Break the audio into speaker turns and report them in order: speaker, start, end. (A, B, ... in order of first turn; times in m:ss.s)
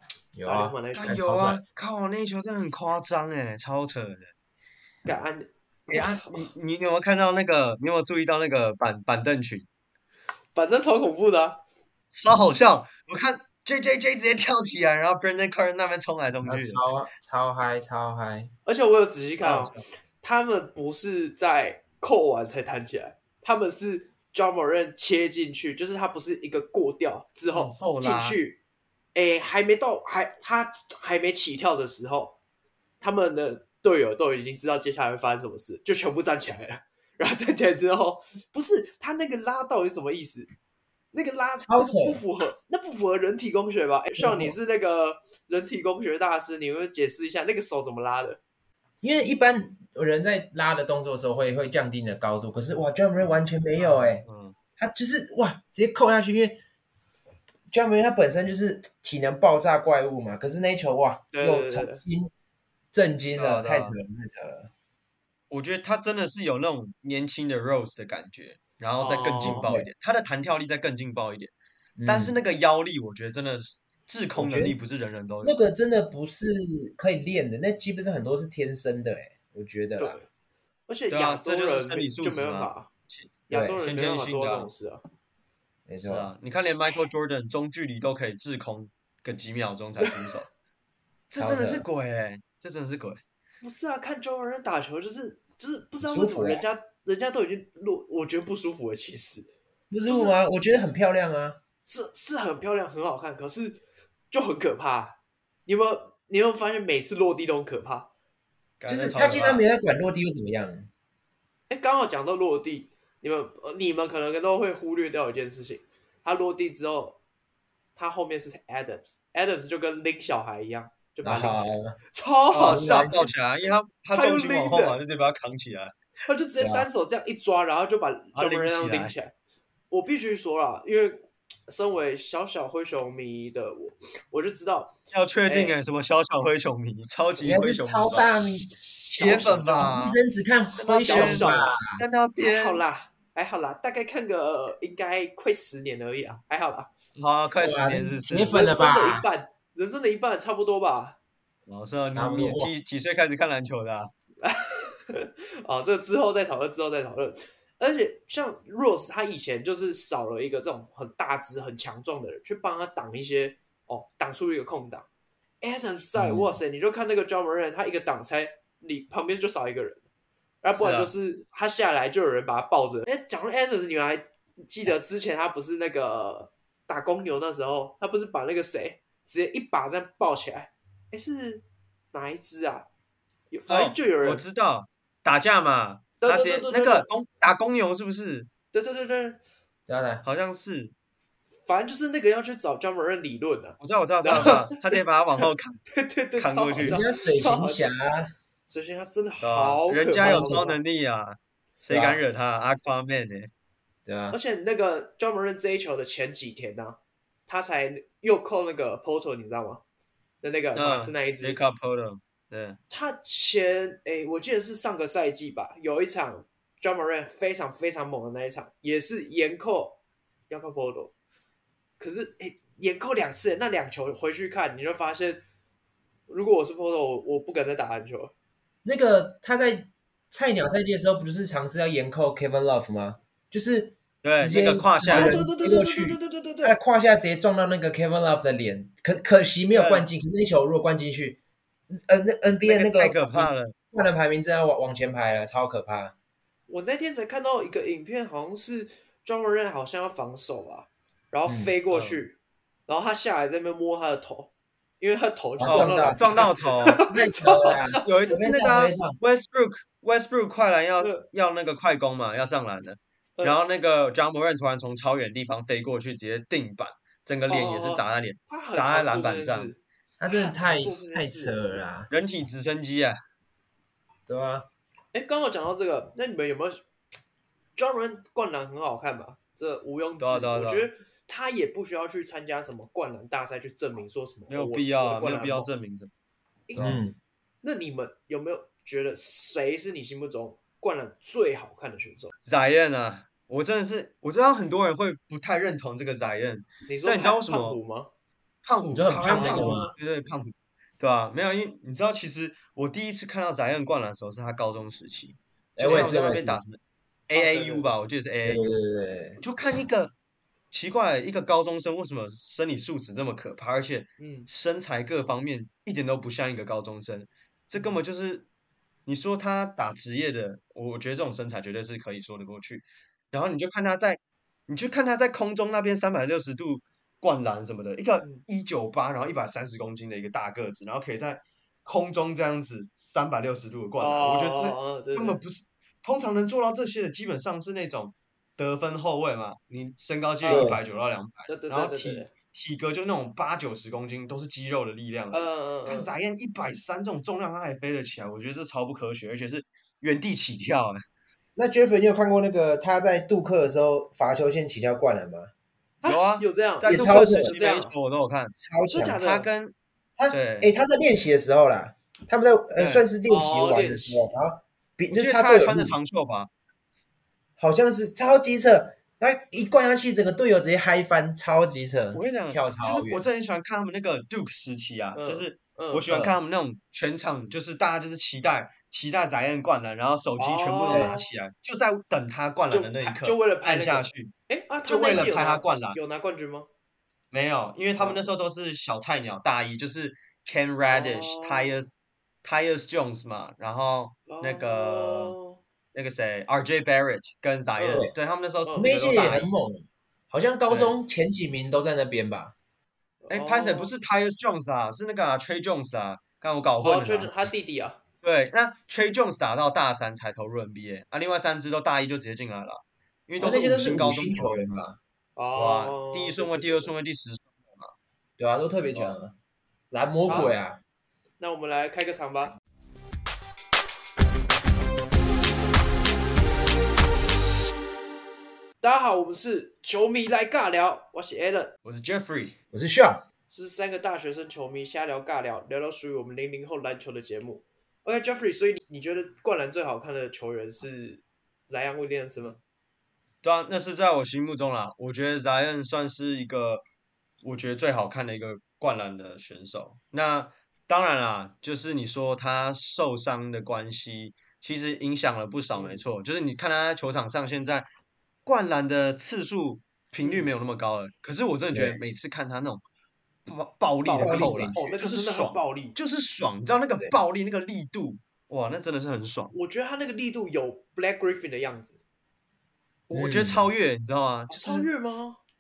0:00.4-0:01.6 A
0:00.4-0:01.4 B
0:00.9-0:04.3 C
0:05.1-0:06.5 B
0:05.9-0:09.7 C
0:10.6-0:11.6 B
0:12.1-0:16.8 C
0:16.4-0:18.5 A
0:18.7-0:28.6 B
0:19.4-0:19.8 C
0:27.5-0:28.4 C
0:29.2-0:32.4 B
0:33.0-0:40.5 B
0:41.1-0:48.4 B
0:41.7-0:42.2 A
0:44.2-0:44.6 A
0:49.0-0:54.2 A
0:53.8-0:54.6 C
0:54.8-0:56.6 A
0:57.7-1:02.3 A
1:01.3-1:02.0 B
1:02.9-1:04.7 A
1:03.4-1:04.0 C
1:05.5-1:11.5 C
1:09.0-1:09.7 B
1:09.4-1:09.9 A
1:12.0-1:12.4 A
1:12.1-1:15.6 C
1:14.4-1:14.8 A
1:15.4-1:20.2 A
1:20.0-1:20.3 B
1:20.9-1:22.9 B
1:21.1-1:24.7 C
1:23.5-1:25.0 B
1:23.5-1:23.8 A
1:25.9-1:26.3 A
1:26.0-1:30.5 C
1:30.0-1:30.4 B
1:31.3-1:33.2 C
1:31.4-1:31.8 A
1:33.6-1:39.5 B
1:36.0-1:36.6 A
1:39.9-1:41.6 A
1:40.0-1:40.4 B
1:41.8-1:43.8 B
1:44.3-1:48.1 B
1:48.8-1:49.6 C
1:48.9-1:50.9 A
1:51.7-1:57.2 B
1:58.0-2:03.3 B
2:01.2-2:02.0 A
2:02.5-2:05.9 C
2:02.6-2:03.2 A
2:04.1-2:05.0 B
2:06.3-2:09.3 B
2:06.6-2:06.9 A
2:08.4-2:09.1 C
2:09.9-2:14.9 B
2:15.1-2:18.3 C
2:15.5-2:15.7 B
2:17.4-2:18.7 A
2:18.6-2:19.9 B
2:19.2-2:20.2 C
2:19.2-2:22.0 A
2:20.7-2:22.8 C
2:21.0-2:21.8 B
2:22.4-2:26.9 B
2:27.2-2:28.6 C
2:27.6-2:29.3 A
2:28.5-2:31.2 B
2:31.7-2:34.1 C
2:32.1-2:32.7 A
2:34.4-2:45.1 B
2:45.6-2:50.0 B
2:46.2-2:46.5 A
2:50.6-3:02.9 B
2:50.8-2:51.1 C
3:03.5-3:04.4 B
3:03.7-3:08.5 C
3:06.2-3:07.1 B
3:08.7-3:09.4 B
3:09.9-3:10.2 A
3:10.2-3:10.9 C
3:11.5-3:17.8 B
3:13.8-3:15.8 C
3:16.4-3:17.0 C
3:16.8-3:18.3 A
3:18.7-3:20.8 B
3:19.4-3:23.5 C
3:20.2-3:20.6 A
3:21.9-3:22.2 A
3:24.1-3:24.4 A
3:24.3-3:29.8 B
3:30.4-3:31.6 B
3:30.8-3:32.8 C
3:32.9-3:40.0 B
3:40.5-3:41.1 B
3:42.0-3:45.4 B
3:46.3-3:48.3 B
3:48.8-4:01.4 A
3:54.2-3:55.4 C
3:55.0-3:56.8 B
3:59.7-4:00.1 C
4:01.9-4:06.2 A
4:02.6-4:03.8 C
4:06.7-4:12.4 B
4:11.5-4:11.8 A
4:11.9-4:12.2 C
4:12.9-4:18.2 B
4:15.6-4:16.3 A
4:15.7-4:17.0 C
4:17.0-4:19.2 A
4:18.0-4:29.7 C
4:27.5-4:31.6 B
4:30.2-4:32.1 A
4:32.1-4:33.2 C
4:34.3-4:34.7 A
4:35.1-4:36.8 B
4:37.8-4:45.7 B
4:40.2-4:40.9 C
4:44.5-4:46.1 C
4:46.7-4:47.0 B
4:46.8-4:47.2 A
4:47.6-4:52.3 B
4:52.4-4:57.8 C
4:56.9-4:58.1 B
4:58.6-5:08.8 C
4:58.9-4:59.9 A
4:59.1-4:59.9 B
5:05.8-5:06.6 A
5:05.9-5:06.2 B
5:07.3-5:07.9 B
5:08.4-5:09.4 A
5:09.4-5:10.1 C
5:10.7-5:18.5 C
5:14.2-5:14.5 B
5:19.1-5:51.0 C
5:34.0-5:35.4 B
5:40.4-5:40.8 B
5:40.5-5:40.8 A
5:41.5-5:42.3 B
5:45.3-5:46.1 B
5:51.6-5:55.5 A
5:56.0-5:57.9 B
5:56.0-5:58.6 C
5:56.8-5:57.6 A
5:58.6-5:59.2 A
5:58.9-5:59.5 B
5:59.2-5:59.7 C
6:00.2-6:06.0 A
6:00.3-6:00.7 C
6:02.8-6:03.1 C
6:03.3-6:04.4 B
6:05.1-6:06.5 C
6:07.6-6:13.3 A
6:12.1-6:24.3 C
6:15.2-6:16.4 B
6:20.4-6:21.3 B
6:20.9-6:21.2 A
6:22.7-6:26.7 B
6:24.8-6:26.0 C
6:27.3-6:35.4 C
6:30.9-6:31.8 B
6:34.3-6:35.6 B
6:35.9-6:39.5 C
6:37.8-6:38.1 B
6:38.6-6:39.4 B
6:38.8-6:42.6 A
6:40.7-6:41.0 C
6:43.2-6:43.9 B
6:43.3-6:47.5 C
6:46.8-6:48.0 B
6:48.2-6:54.8 C
6:53.4-6:55.0 A
6:55.4-6:56.9 B
6:55.6-6:57.9 C
6:58.4-6:59.4 A
6:59.9-7:00.8 A
7:00.2-7:00.6 B
7:01.4-7:02.6 B
7:08.8-7:11.7 B
7:11.8-7:12.6 C
7:12.7-7:13.2 A
7:13.5-7:22.6 B
7:23.4-7:26.8 C
7:27.4-7:37.9 C
7:35.7-7:36.0 B
7:38.5-7:42.8 C
7:40.2-7:40.5 B
7:41.7-7:42.0 A
7:43.5-7:49.5 C
7:44.0-7:46.0 B
7:44.2-7:44.9 A
7:49.5-7:52.0 B
7:53.1-7:54.9 C
7:53.1-7:53.7 A
7:54.5-7:55.4 B